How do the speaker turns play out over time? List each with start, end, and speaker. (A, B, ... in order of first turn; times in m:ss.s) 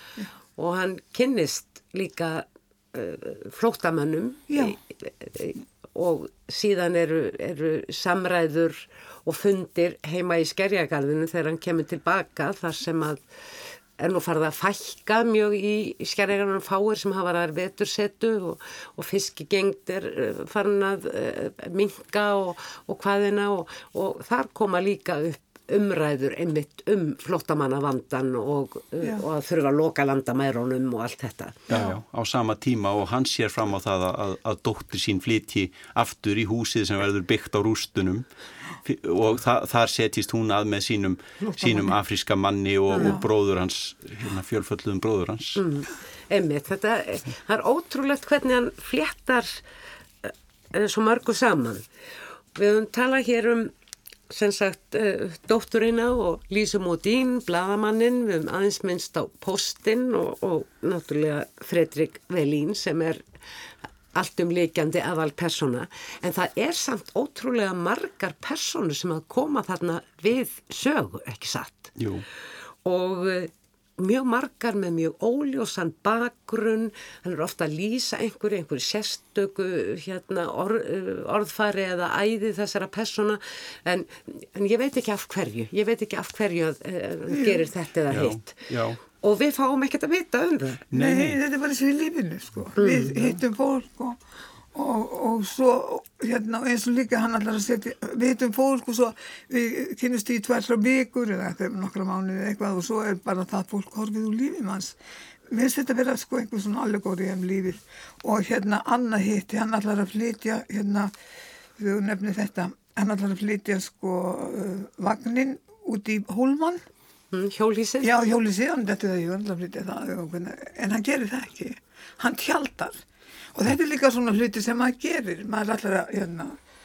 0:00.6-0:31.8 A
0:04.5-0:04.8 B
0:31.7-0:38.3 C
0:31.7-0:32.0 B
0:38.8-0:45.6 C
0:41.6-0:41.9 B
0:42.9-0:43.2 A
0:43.0-0:43.2 B
0:45.6-0:49.6 A
0:50.2-0:51.9 A
0:52.5-0:53.7 A
0:54.3-1:03.2 A
1:04.1-1:11.9 A
1:12.0-1:12.2 C
1:12.8-1:30.8 A
1:27.3-1:27.6 B
1:28.1-1:29.0 C
1:30.9-1:31.4 C
1:30.9-1:34.2 B
1:32.8-1:33.4 A
1:34.7-1:45.0 B
1:45.5-1:51.1 B
1:51.8-1:56.8 B
1:57.3-1:58.2 A
1:58.0-2:03.0 B
2:03.6-2:06.6 B